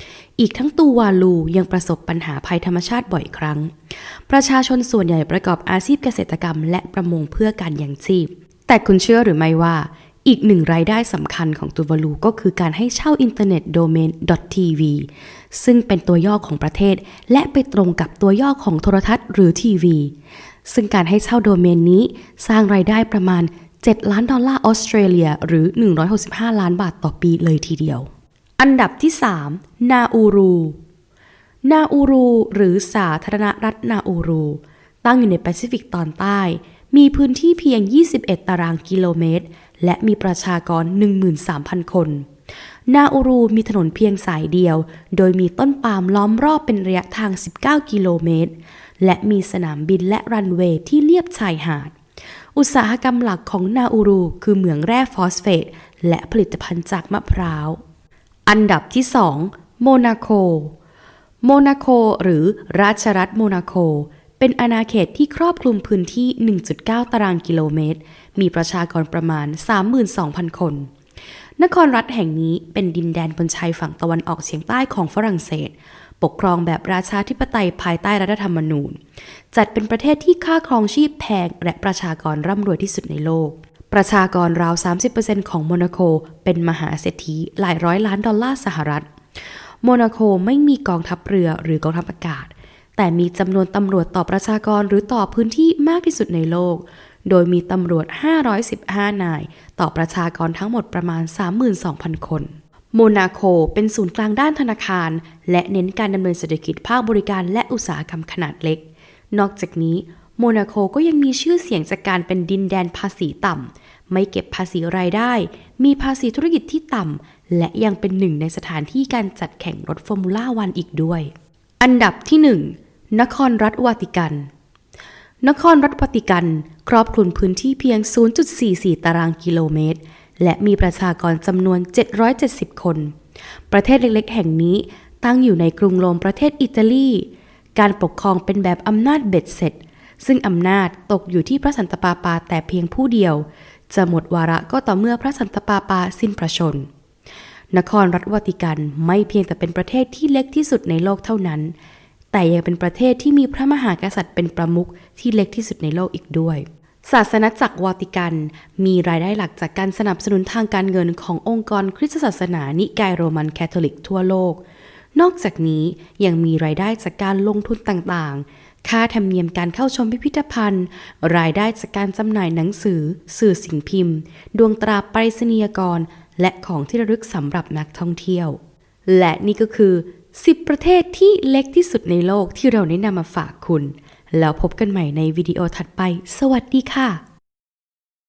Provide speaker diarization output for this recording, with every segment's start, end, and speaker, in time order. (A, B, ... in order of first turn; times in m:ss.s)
0:00.4-0:20.1 A
0:20.6-0:30.8 A
0:31.6-0:42.3 A
0:42.9-0:51.9 A
0:52.5-0:57.8 A
0:58.5-1:00.7 A
1:01.4-1:10.9 A
1:11.6-1:19.0 A
1:19.5-2:04.5 A
2:05.4-2:13.1 A
2:13.7-2:26.9 A
2:27.7-2:31.7 A
2:32.3-2:44.6 A
2:45.2-3:07.2 A